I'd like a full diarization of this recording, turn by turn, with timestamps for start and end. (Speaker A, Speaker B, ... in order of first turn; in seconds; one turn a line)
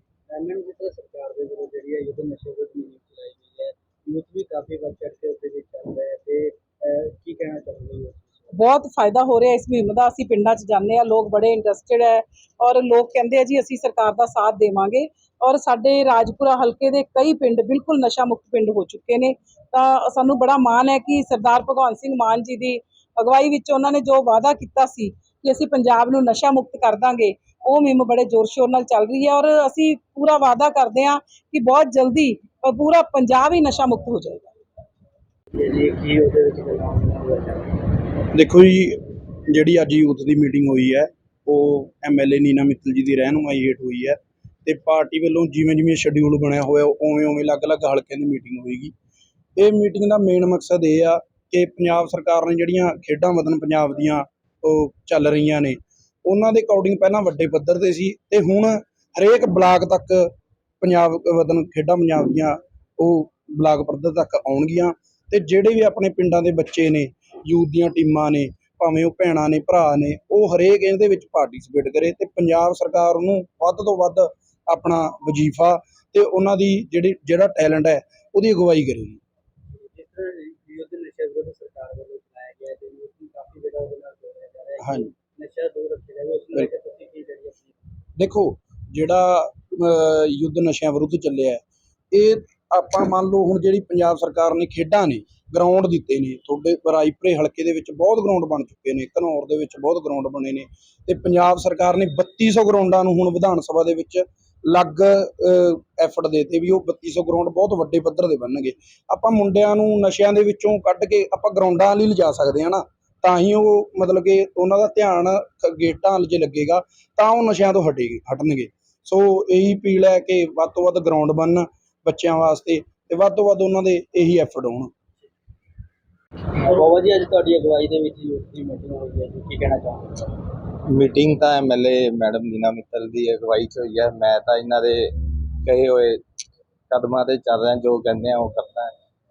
Speaker A: 0.3-8.5
Speaker B: 8.5-34.5
Speaker A: 35.5-37.8
Speaker C: 38.3-48.9
Speaker C: 49.5-60.3
Speaker C: 60.8-79.2
Speaker A: 79.7-87.8
Speaker C: 84.8-85.1
Speaker C: 88.2-91.6
Speaker C: 92.1-124.9
Speaker A: 126.5-130.3
Speaker D: 130.9-136.2
Speaker D: 136.9-138.9